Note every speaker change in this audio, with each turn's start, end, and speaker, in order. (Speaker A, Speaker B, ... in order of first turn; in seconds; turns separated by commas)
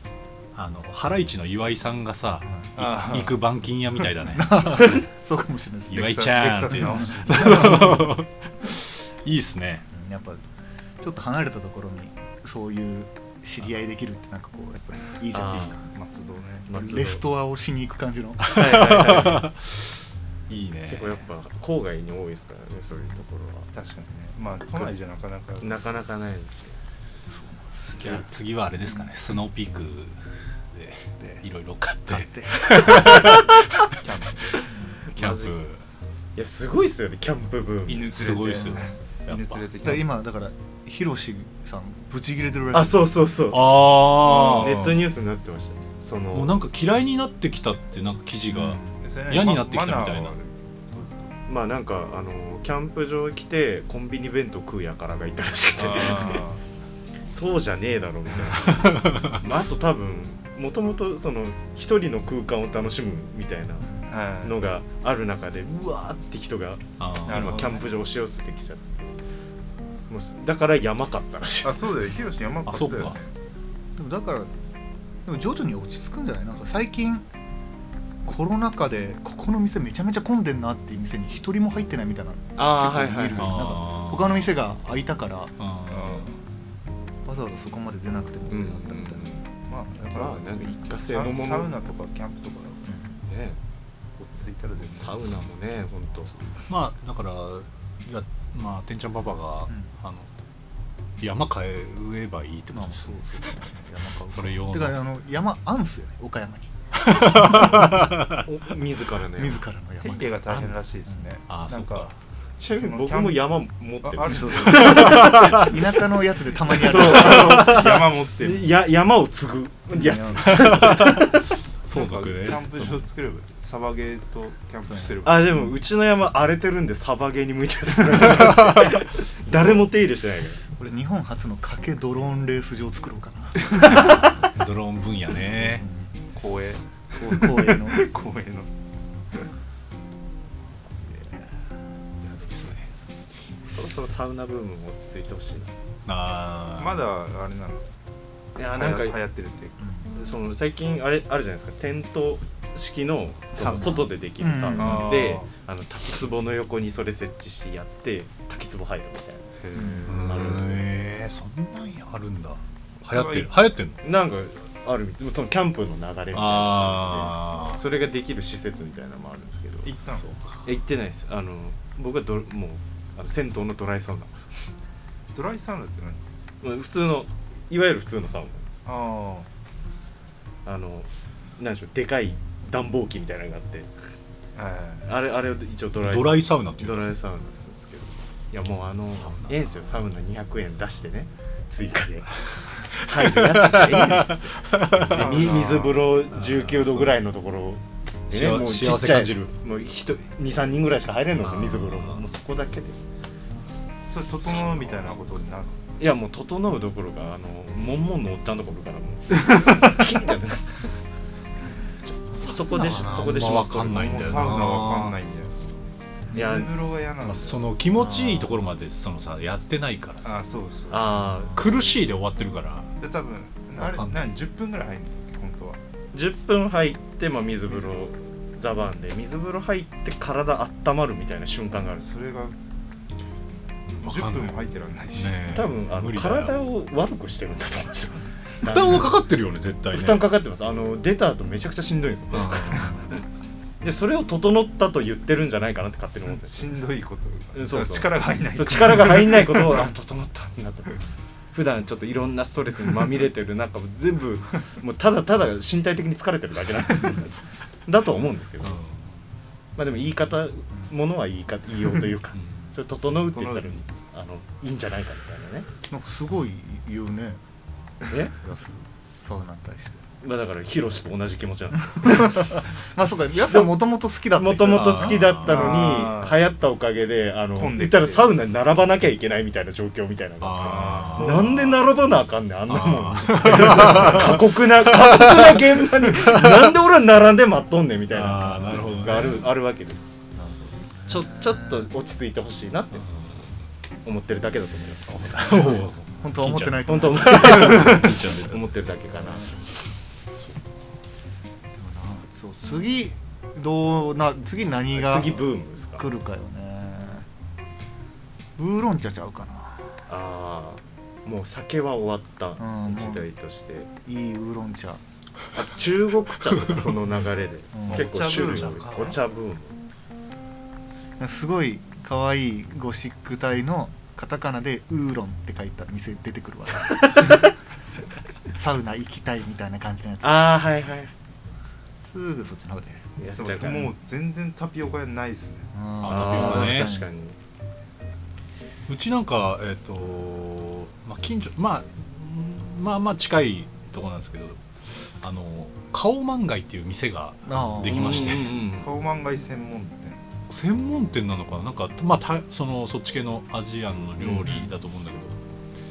Speaker A: 0.5-5.0, Speaker B: 2.8-3.4, Speaker C: 4.3-6.2, Speaker A: 5.9-9.8, Speaker B: 5.9-8.1, Speaker C: 6.8-8.1, Speaker C: 9.9-10.4, Speaker C: 11.0-15.8, Speaker D: 15.3-15.8, Speaker B: 15.9-16.9, Speaker D: 16.7-17.2, Speaker C: 16.7-18.6, Speaker A: 18.4-20.0, Speaker D: 18.5-19.5, Speaker A: 20.5-21.1, Speaker D: 20.9-23.7, Speaker B: 23.7-26.0, Speaker D: 25.6-26.8, Speaker C: 27.3-28.2, Speaker A: 28.0-33.9, Speaker C: 32.1-32.6, Speaker D: 32.9-33.6, Speaker B: 33.9-34.4, Speaker C: 34.7-35.0, Speaker D: 35.1-35.5, Speaker A: 35.1-35.8, Speaker D: 36.4-38.2, Speaker B: 37.9-40.1, Speaker A: 38.1-39.6, Speaker C: 39.8-43.0, Speaker D: 42.7-46.5, Speaker A: 43.5-44.9, Speaker B: 44.3-44.9, Speaker A: 46.3-50.3, Speaker B: 48.6-51.3, Speaker D: 51.5-56.5, Speaker B: 55.8-56.6, Speaker D: 57.3-69.1, Speaker A: 58.7-59.4, Speaker B: 64.1-64.6, Speaker A: 67.0-67.7, Speaker B: 67.2-67.8, Speaker D: 70.1-71.9, Speaker B: 71.6-73.3, Speaker A: 72.7-73.2, Speaker C: 74.0-74.5, Speaker C: 75.2-77.2, Speaker C: 78.2-85.5, Speaker D: 82.5-83.6, Speaker A: 83.3-84.5, Speaker A: 85.6-86.2, Speaker B: 85.9-86.3, Speaker C: 87.2-89.2, Speaker D: 88.5-89.4, Speaker B: 89.1-92.9, Speaker D: 90.0-91.7, Speaker C: 92.8-93.1, Speaker D: 93.3-93.6, Speaker B: 94.2-95.2, Speaker D: 94.8-96.3, Speaker A: 96.7-100.3, Speaker A: 101.2-103.7, Speaker C: 102.7-108.0, Speaker A: 104.3-105.0, Speaker A: 107.0-108.5, Speaker D: 108.4-109.6, Speaker C: 109.4-110.5, Speaker B: 110.0-112.1, Speaker A: 111.5-112.1, Speaker D: 112.6-115.7, Speaker B: 112.6-115.4, Speaker C: 114.2-117.8, Speaker A: 114.9-115.7, Speaker D: 116.7-121.4, Speaker B: 116.7-118.8, Speaker C: 119.9-120.7, Speaker A: 120.4-122.9, Speaker B: 121.9-125.7, Speaker C: 124.9-125.2, Speaker D: 125.2-130.6, Speaker C: 130.8-134.1, Speaker A: 133.8-135.8, Speaker C: 135.4-136.1, Speaker B: 136.3-138.7, Speaker C: 137.2-138.1, Speaker C: 141.0-141.4, Speaker A: 142.3-142.8, Speaker D: 143.6-145.7, Speaker A: 146.1-147.0, Speaker B: 146.8-147.9, Speaker D: 148.6-149.2, Speaker B: 148.6-149.8, Speaker C: 149.8-150.1, Speaker D: 150.1-159.4, Speaker C: 153.6-155.1, Speaker B: 154.7-155.5, Speaker B: 159.6-160.6, Speaker C: 159.7-160.1, Speaker D: 160.1-160.9, Speaker A: 160.1-164.0, Speaker B: 163.1-163.5, Speaker D: 164.0-169.9, Speaker A: 166.3-167.8, Speaker B: 169.8-170.3, Speaker A: 170.1-170.6, Speaker D: 170.6-174.3, Speaker B: 175.3-176.2, Speaker D: 176.6-178.7, Speaker B: 178.8-179.5, Speaker D: 180.6-183.9, Speaker B: 184.5-185.1, Speaker D: 185.0-192.3, Speaker A: 186.0-187.1, Speaker A: 189.2-189.8, Speaker D: 192.9-203.0, Speaker A: 193.0-195.5, Speaker B: 195.1-196.1, Speaker A: 196.3-197.2, Speaker A: 198.3-199.5, Speaker A: 201.4-202.2, Speaker B: 204.1-205.8, Speaker A: 204.5-204.8, Speaker D: 206.0-210.9, Speaker D: 212.1-214.5, Speaker A: 212.4-215.2, Speaker B: 213.9-215.7, Speaker B: 216.3-217.6, Speaker D: 216.3-216.7, Speaker A: 217.2-220.4, Speaker C: 218.0-218.5, Speaker B: 220.2-221.2, Speaker D: 220.9-221.8, Speaker A: 221.5-223.0, Speaker B: 223.0-225.8, Speaker A: 223.8-224.3, Speaker D: 226.1-232.1, Speaker B: 232.0-232.6, Speaker A: 233.9-234.6, Speaker B: 234.0-235.4, Speaker A: 235.1-236.6, Speaker D: 235.5-239.1, Speaker A: 238.6-240.2, Speaker D: 239.9-242.9, Speaker A: 242.3-243.0, Speaker D: 243.8-246.6, Speaker B: 246.2-249.9, Speaker D: 247.5-251.0, Speaker D: 251.5-257.3, Speaker D: 257.9-258.8, Speaker A: 258.6-259.1, Speaker D: 259.8-265.7, Speaker B: 263.3-263.8, Speaker C: 265.9-267.4, Speaker C: 268.4-270.0, Speaker D: 270.2-272.6, Speaker C: 271.9-275.2, Speaker D: 273.3-273.8, Speaker D: 274.3-290.1, Speaker A: 274.7-275.8, Speaker B: 275.4-276.4, Speaker B: 277.5-278.4, Speaker A: 280.4-281.7, Speaker B: 280.6-281.7, Speaker A: 282.7-286.8, Speaker A: 288.1-289.4, Speaker D: 291.1-293.1, Speaker C: 291.1-291.6, Speaker D: 294.0-295.8, Speaker A: 295.1-298.6, Speaker C: 296.2-298.0, Speaker D: 296.8-299.6, Speaker C: 301.7-307.2, Speaker D: 304.9-306.1, Speaker C: 308.6-309.9, Speaker D: 310.1-313.9, Speaker C: 312.6-313.3, Speaker C: 314.0-315.0, Speaker D: 315.5-319.7, Speaker A: 316.6-316.9, Speaker C: 317.7-318.1, Speaker B: 317.9-319.2, Speaker A: 318.2-319.2, Speaker C: 321.2-327.4, Speaker D: 327.0-327.5, Speaker C: 328.5-330.5, Speaker D: 330.2-331.1, Speaker C: 332.0-333.1, Speaker D: 333.2-333.9, Speaker B: 333.3-335.7, Speaker C: 335.7-337.1, Speaker A: 336.0-336.9, Speaker D: 336.0-337.4, Speaker A: 338.9-348.6, Speaker C: 347.4-348.1, Speaker D: 347.9-348.9, Speaker B: 348.2-350.2, Speaker A: 350.5-355.4, Speaker D: 354.2-354.6